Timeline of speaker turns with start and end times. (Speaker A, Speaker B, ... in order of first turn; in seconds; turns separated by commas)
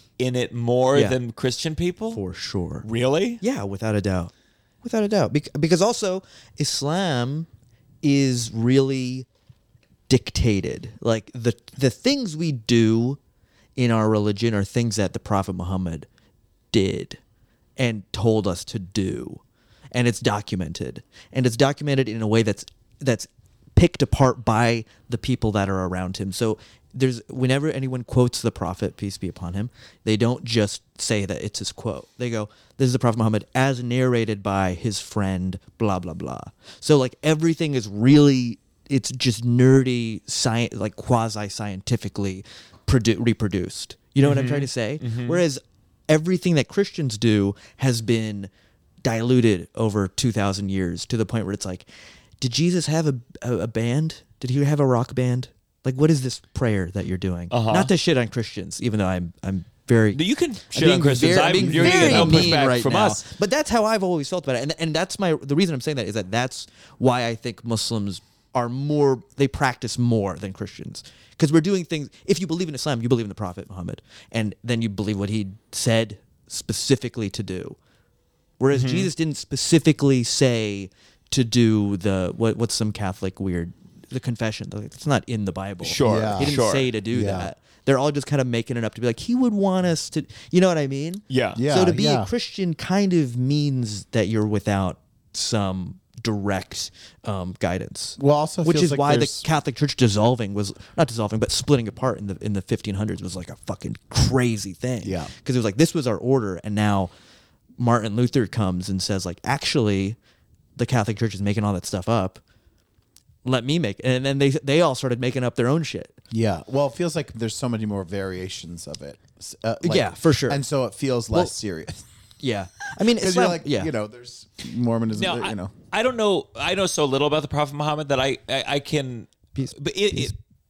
Speaker A: 0.2-2.2, Speaker B: 2.1-2.9, Speaker A: 2.8-3.4, Speaker B: 3.4-4.3, Speaker B: 4.8-7.5, Speaker B: 8.0-9.2, Speaker B: 10.1-13.2, Speaker B: 13.8-16.1, Speaker B: 16.7-17.2, Speaker B: 17.8-19.4, Speaker B: 19.9-48.5, Speaker A: 44.2-45.4, Speaker B: 49.0-51.9, Speaker B: 52.4-60.2, Speaker A: 57.5-57.9, Speaker A: 60.1-63.2, Speaker C: 60.8-62.7, Speaker B: 60.8-77.8, Speaker B: 78.6-107.1, Speaker A: 78.7-79.1, Speaker A: 85.8-86.9, Speaker C: 86.0-87.5, Speaker A: 91.3-91.6, Speaker C: 91.6-92.3, Speaker C: 98.2-99.4, Speaker C: 105.0-105.3, Speaker B: 107.8-110.2, Speaker B: 110.8-112.4, Speaker B: 113.4-116.2, Speaker C: 116.3-122.0, Speaker B: 119.8-120.6, Speaker B: 122.4-123.9, Speaker C: 123.0-125.7, Speaker A: 125.1-130.3, Speaker B: 129.5-130.3